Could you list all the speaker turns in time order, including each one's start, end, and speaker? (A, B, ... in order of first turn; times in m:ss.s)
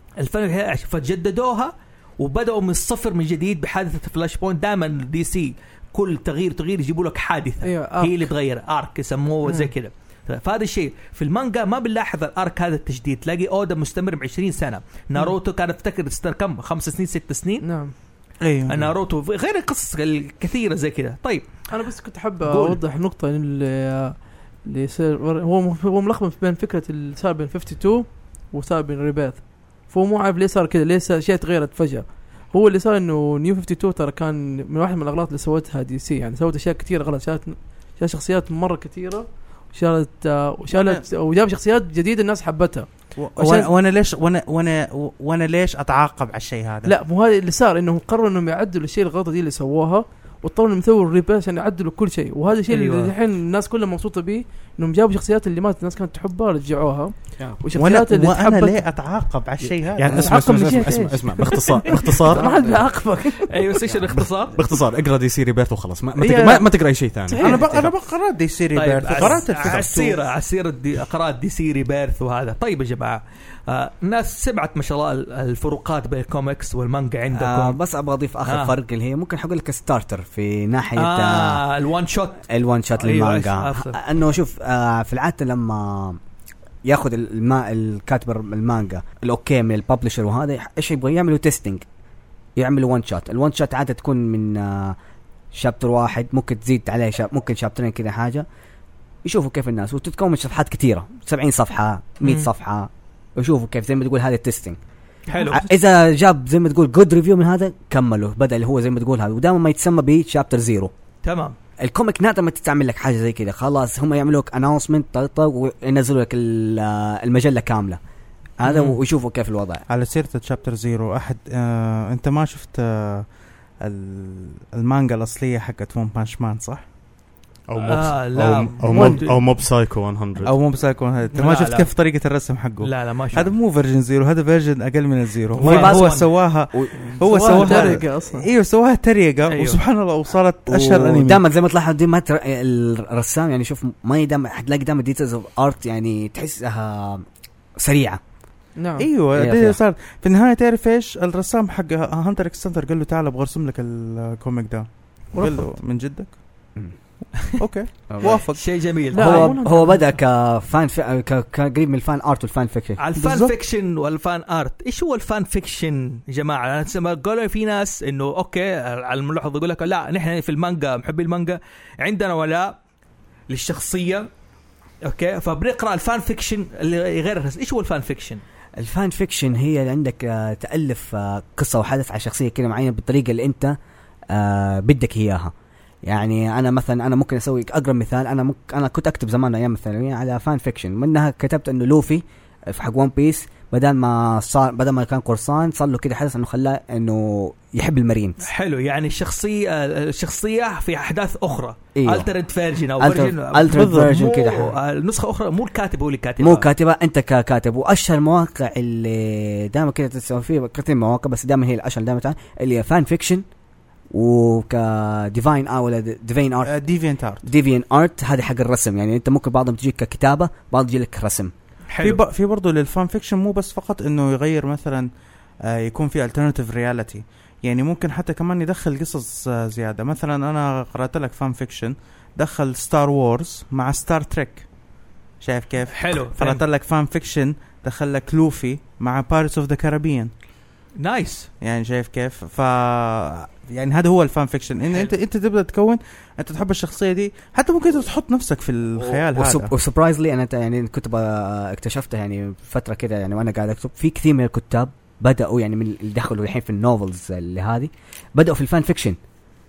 0:00.2-0:17.7 A
0:07.6-0:08.3 B
0:09.4-0:09.7 B
0:17.6-0:17.9 B
0:18.4-0:18.9 C
0:18.7-0:21.5 A
0:21.7-0:43.7 B
0:22.4-0:22.8 A
0:40.7-0:41.0 C
0:43.2-0:46.9 C
0:46.8-0:58.8 B
0:52.7-0:53.1 A
0:57.7-1:00.6 C
1:00.0-1:02.8 D
1:00.1-1:03.5 B
1:03.5-1:04.6 A
1:04.5-1:07.8 D
1:06.2-1:06.6 C
1:07.3-1:07.8 B
1:07.4-1:10.2 C
1:07.5-1:07.8 E
1:08.7-1:17.8 A
1:17.3-1:21.6 E
1:18.4-1:18.8 A
1:21.0-1:24.0 A
1:22.5-1:26.2 E
1:26.8-1:31.8 E
1:32.6-1:35.0 E
1:35.5-1:38.4 E
1:39.2-1:44.8 E
1:42.2-1:42.5 A
1:45.3-1:45.7 A
1:45.5-1:50.9 E
1:51.2-1:51.6 A
1:51.8-1:58.0 E
1:58.6-1:59.8 E
1:58.6-1:59.0 A
1:59.9-2:03.3 C
2:03.8-2:06.8 C
2:07.7-2:10.5 D
2:07.8-2:09.4 A
2:08.9-2:09.2 B
2:10.4-2:21.4 C
2:11.3-2:11.9 A
2:12.8-2:13.5 A
2:15.6-2:16.3 A
2:15.6-2:18.0 E
2:17.2-2:18.5 B
2:19.5-2:19.8 A
2:20.7-2:27.2 E
2:27.8-2:28.2 E
2:28.8-2:29.1 B
2:29.0-2:36.4 C
2:29.3-2:29.8 E
2:35.3-2:35.7 B
2:37.6-2:38.8 C
2:38.1-2:38.4 E
2:38.2-2:39.6 A
2:39.1-2:40.1 B
2:39.2-2:43.0 E
2:43.0-2:52.8 A
2:43.2-2:43.5 C
2:53.5-2:54.3 A
2:55.0-2:58.4 A
2:58.8-3:03.8 E
3:04.3-3:05.5 E
3:06.0-3:18.4 E
3:18.4-3:26.7 A
3:21.9-3:22.3 E
3:23.0-3:24.7 E
3:23.7-3:24.6 C
3:26.4-3:33.4 E
3:34.1-3:36.7 E
3:36.6-3:37.4 C
3:37.4-3:41.5 E
3:41.9-3:42.2 A
3:42.0-3:45.1 C
3:45.6-3:54.7 C
3:55.4-4:00.3 C
3:55.9-3:56.6 A
4:01.0-4:01.5 A
4:01.6-4:09.7 C
4:09.0-4:19.2 E